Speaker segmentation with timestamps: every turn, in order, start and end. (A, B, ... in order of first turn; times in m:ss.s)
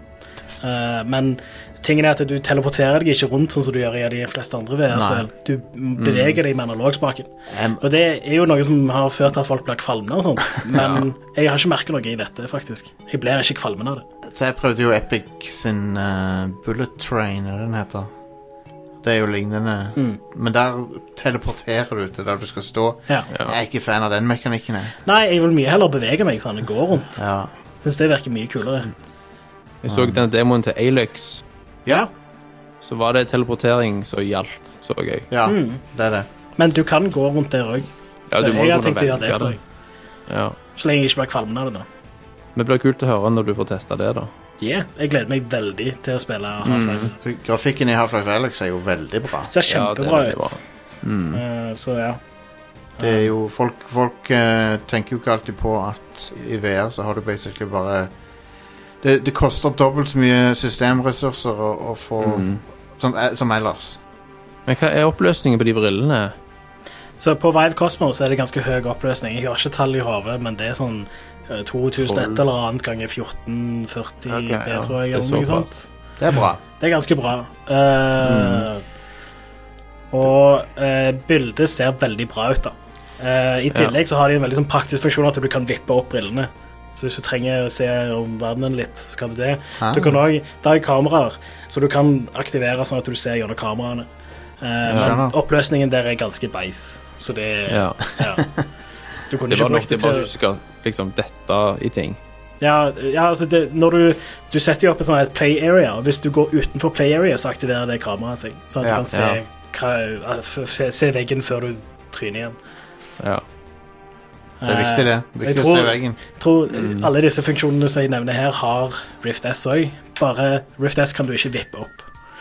0:00.6-0:14.0 A
0:04.9-0:05.3 B
0:06.0-0:06.4 C
0:07.5-0:07.8 B
0:10.8-0:11.0 C
0:14.3-0:18.1 B
0:19.0-0:25.0 B
0:25.1-0:27.2 A
0:27.2-0:27.5 B
0:27.8-0:28.9 A
0:29.8-0:31.4 C
0:29.9-0:30.2 B
0:32.8-0:35.3 C
0:35.3-0:36.3 B
0:35.5-0:35.8 A
0:36.6-0:39.6 A
0:38.3-0:39.6 C
0:40.3-0:40.6 C
0:40.8-0:41.8 A
0:42.6-0:44.3 C
0:44.6-0:47.1 A
0:46.6-0:47.1 C
0:47.2-0:49.5 B
0:49.4-0:50.6 A
0:49.7-0:51.4 C
0:51.3-0:52.2 A
0:53.0-0:53.3 A
0:53.0-0:58.1 B
0:59.0-1:04.0 B
1:02.2-1:02.6 C
1:04.7-1:06.3 C
1:07.2-1:15.9 A
1:12.0-1:12.4 C
1:14.3-1:15.7 C
1:16.2-1:16.6 B
1:16.8-1:18.8 A
1:18.2-1:18.7 C
1:20.1-1:34.1 A
1:29.8-1:30.2 B
1:34.6-1:38.5 A
1:34.9-1:35.2 C
1:34.9-1:35.3 B
1:37.7-1:38.1 C
1:39.3-1:40.3 A
1:39.5-1:42.2 C
1:42.6-1:52.6 A
1:49.1-1:49.4 C
1:54.6-2:02.1 A
1:54.6-1:56.2 B
1:56.7-1:57.1 C